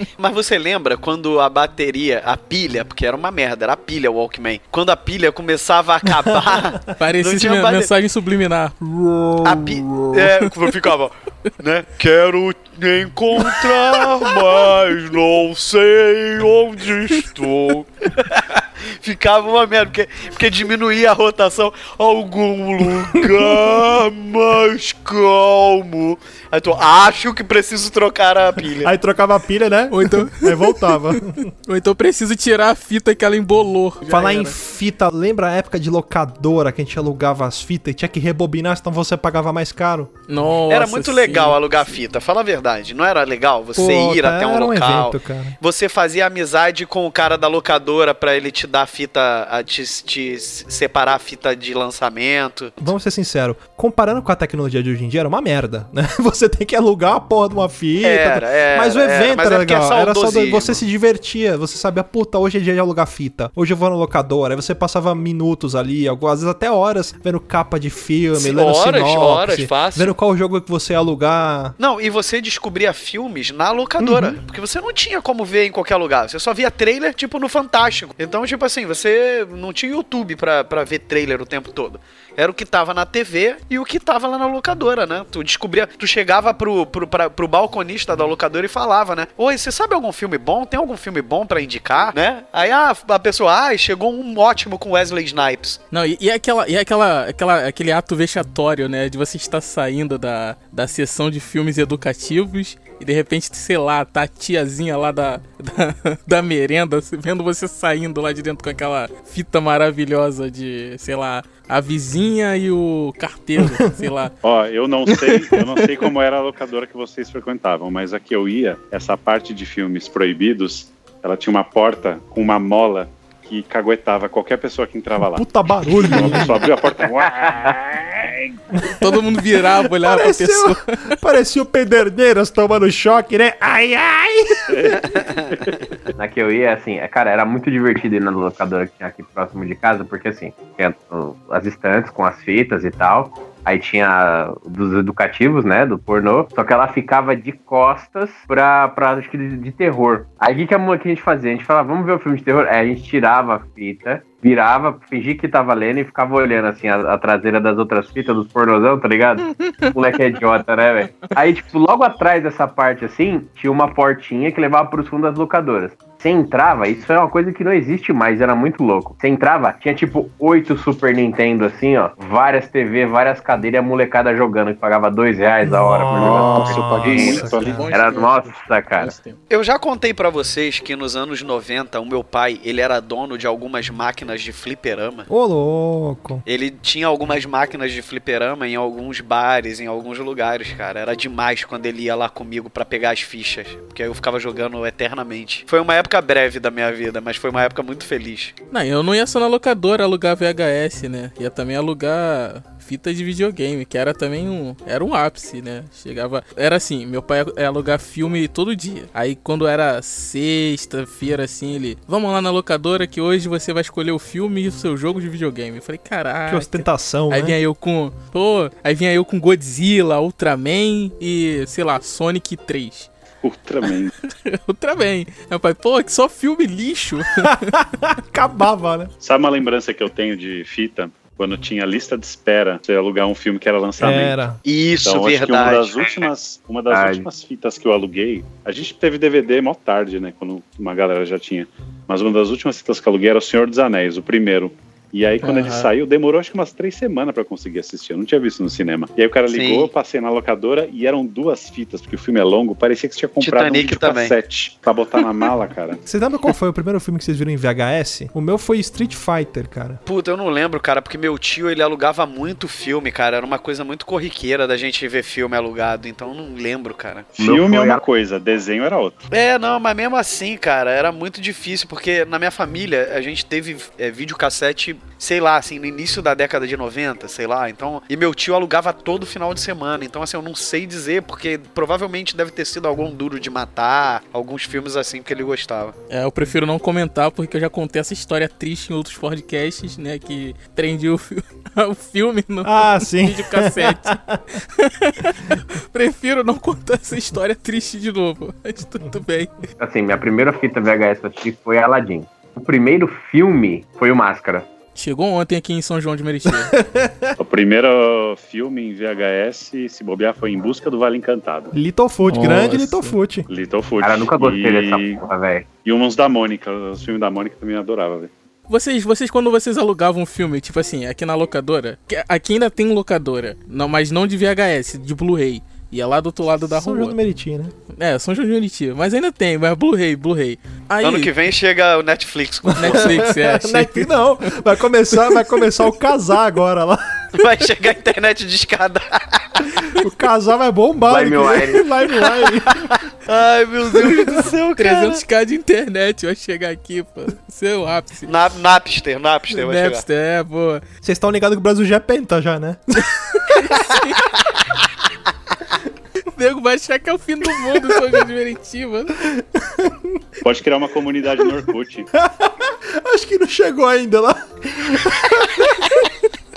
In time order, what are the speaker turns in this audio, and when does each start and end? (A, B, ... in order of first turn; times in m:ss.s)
0:00.2-0:07.9 A
0:06.1-0:06.8 B
0:07.0-0:08.8 C
0:08.8-0:10.4 B
0:09.4-0:28.9 A
0:23.2-0:23.5 B
0:28.8-0:31.5 B
0:29.9-0:34.6 C
0:34.1-0:40.1 B
0:40.3-0:41.6 C
0:40.7-0:52.8 A
0:43.7-0:45.6 B
0:52.8-1:11.8 B
0:58.0-1:00.8 A
1:08.4-1:10.1 A
1:11.8-1:35.8 A
1:14.0-1:14.4 B
1:35.9-1:54.3 C
1:53.6-1:53.9 B
1:54.4-2:08.6 D
1:55.1-1:55.8 C
2:05.3-2:06.6 B
2:06.1-2:06.5 C
2:08.8-2:09.2 B
2:08.9-2:10.9 C
2:09.8-2:15.0 B
2:14.7-2:15.9 D
2:16.2-2:59.1 E
2:39.5-2:39.9 C
2:55.6-2:57.9 B
2:56.1-2:58.0 D
2:57.2-2:59.4 C
2:59.5-3:05.3 A
3:05.3-3:06.4 B
3:06.4-3:18.5 A
3:18.7-3:43.1 C
3:36.5-3:37.6 B
3:43.4-3:44.1 D
3:43.8-3:47.7 C
3:47.4-3:49.1 B
3:49.2-3:54.4 D
3:54.0-3:54.6 B
3:54.6-3:56.2 A
3:55.0-4:16.0 D
3:56.9-3:57.2 E
4:05.4-4:05.9 C
4:09.5-4:09.9 A
4:13.4-4:14.3 A
4:16.0-4:20.0 B
4:20.0-4:27.4 A
4:27.4-4:29.2 D
4:27.4-4:28.0 E
4:29.3-4:45.9 A
4:46.1-4:59.6 C
4:52.6-4:54.4 B
4:59.8-5:04.7 E
5:04.9-5:06.8 C
5:06.4-5:07.3 B
5:07.4-5:11.7 D
5:11.7-5:13.5 B
5:12.2-5:13.2 C
5:13.5-5:15.2 D
5:14.0-5:15.6 E
5:15.8-5:18.3 D
5:18.7-5:27.2 C
5:26.7-5:27.7 B
5:27.9-5:31.3 C
5:31.0-5:33.3 A
5:32.6-5:37.4 B
5:32.8-5:34.6 C
5:35.2-5:35.6 C
5:37.3-5:39.9 A
5:39.8-5:42.9 B
5:41.1-5:41.9 E
5:42.8-5:45.2 A
5:44.0-5:44.4 B
5:44.8-5:48.3 C
5:48.2-5:50.0 A
5:49.5-5:50.8 C
5:51.0-5:53.1 B
5:53.5-5:54.2 C
5:56.3-5:59.2 C
5:59.2-6:00.2 B
6:00.4-6:02.1 D
6:02.1-6:05.8 B
6:05.6-6:06.0 A